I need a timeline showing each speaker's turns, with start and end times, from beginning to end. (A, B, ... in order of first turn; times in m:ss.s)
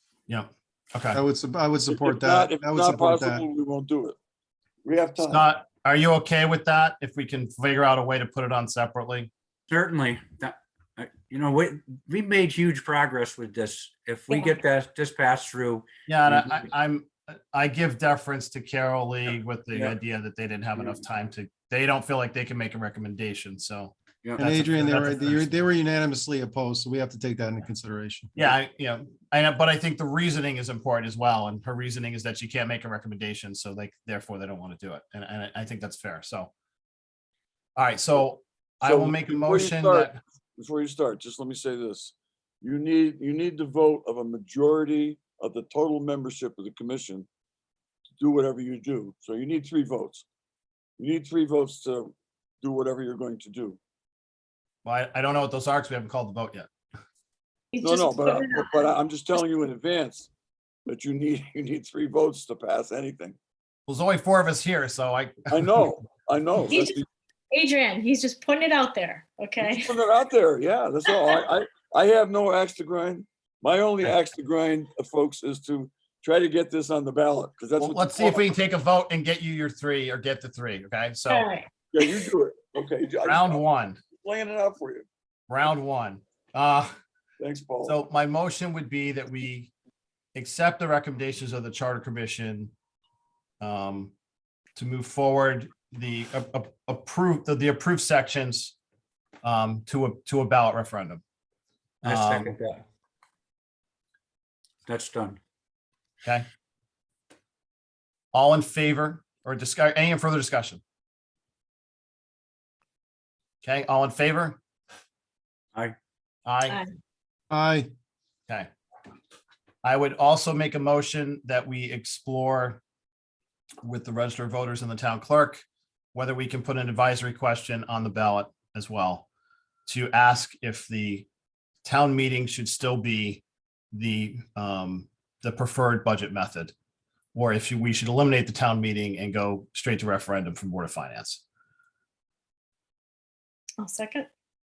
0:00.3-0:01.2 A
0:01.1-0:03.5 B
0:01.9-0:04.2 C
0:04.8-0:05.4 C
0:05.2-0:09.3 A
0:09.7-0:16.7 D
0:16.1-0:25.7 A
0:19.7-0:20.0 D
0:24.4-0:28.3 B
0:28.4-0:36.5 A
0:37.8-0:40.2 A
0:38.8-0:47.3 C
0:48.2-0:50.3 C
0:51.0-0:53.8 C
0:54.8-0:56.7 A
0:57.7-0:58.9 E
0:57.8-1:00.3 C
1:00.9-1:03.4 C
1:03.9-1:05.8 A
1:05.5-1:07.1 C
1:06.7-1:07.0 E
1:07.5-1:09.9 E
1:09.6-1:18.5 C
1:17.8-1:21.5 A
1:21.3-1:22.3 E
1:21.9-1:23.6 C
1:23.2-1:24.0 A
1:24.2-1:25.1 C
1:25.5-1:26.9 A
1:27.4-1:28.0 C
1:27.8-1:29.7 A
1:30.4-1:32.7 A
1:33.6-1:34.1 A
1:34.8-1:38.8 A
1:39.4-1:41.2 A
1:42.0-1:42.5 A
1:42.0-1:42.8 D
1:44.9-1:45.4 D
1:48.3-1:50.8 A
1:53.6-1:54.6 A
1:56.5-1:56.8 A
1:57.5-1:57.9 B
1:59.8-2:02.8 A
2:03.8-2:05.6 A
2:06.1-2:09.3 A
2:09.9-2:11.3 A
2:11.8-2:16.7 A
2:17.3-2:21.4 A
2:23.8-2:24.3 E